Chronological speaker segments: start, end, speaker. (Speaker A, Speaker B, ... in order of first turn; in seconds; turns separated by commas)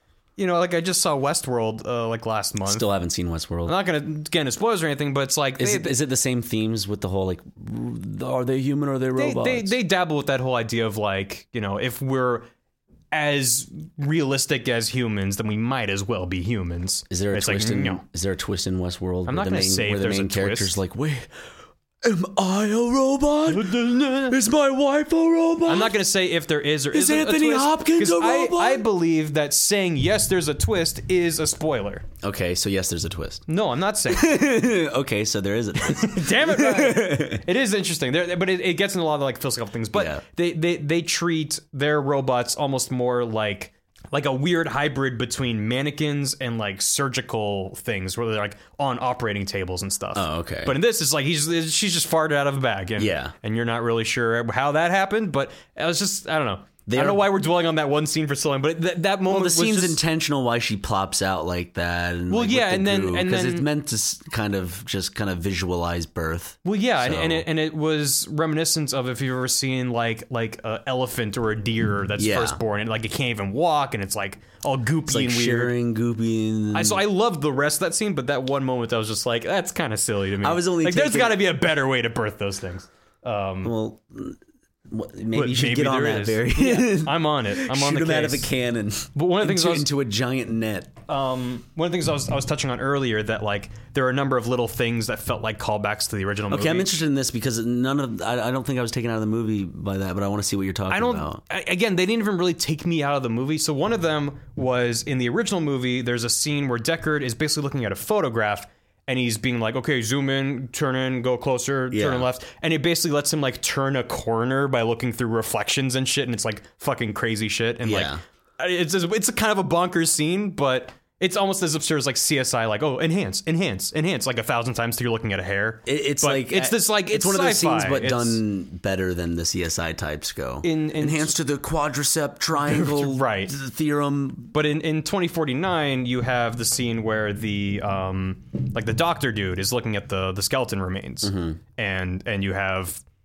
Speaker A: 0.4-2.8, Speaker B: 2.6-3.8, Speaker A: 3.6-6.0, Speaker B: 5.6-9.8, Speaker A: 9.2-12.5, Speaker A: 13.1-18.0, Speaker B: 17.1-21.3, Speaker A: 19.2-20.8, Speaker B: 22.0-26.0, Speaker A: 23.5-24.4, Speaker A: 25.6-32.0, Speaker B: 26.9-28.9, Speaker B: 32.2-33.5, Speaker A: 33.5-34.4, Speaker B: 34.1-37.4, Speaker A: 35.8-60.0, Speaker B: 39.9-40.2, Speaker B: 50.1-50.7, Speaker B: 53.0-53.3, Speaker B: 56.9-57.3, Speaker B: 59.3-67.4, Speaker A: 62.3-63.7, Speaker A: 66.6-75.7, Speaker B: 72.2-72.6, Speaker B: 75.1-77.0, Speaker A: 76.7-83.7, Speaker B: 80.4-81.4, Speaker B: 83.6-90.9, Speaker A: 85.3-88.5, Speaker A: 89.1-89.9, Speaker A: 91.1-96.9, Speaker B: 96.5-101.4, Speaker A: 100.9-128.4, Speaker B: 111.9-112.3, Speaker B: 117.8-118.2, Speaker B: 125.8-134.5, Speaker A: 130.6-131.3, Speaker A: 132.7-133.6, Speaker A: 134.5-143.0, Speaker B: 141.2-141.6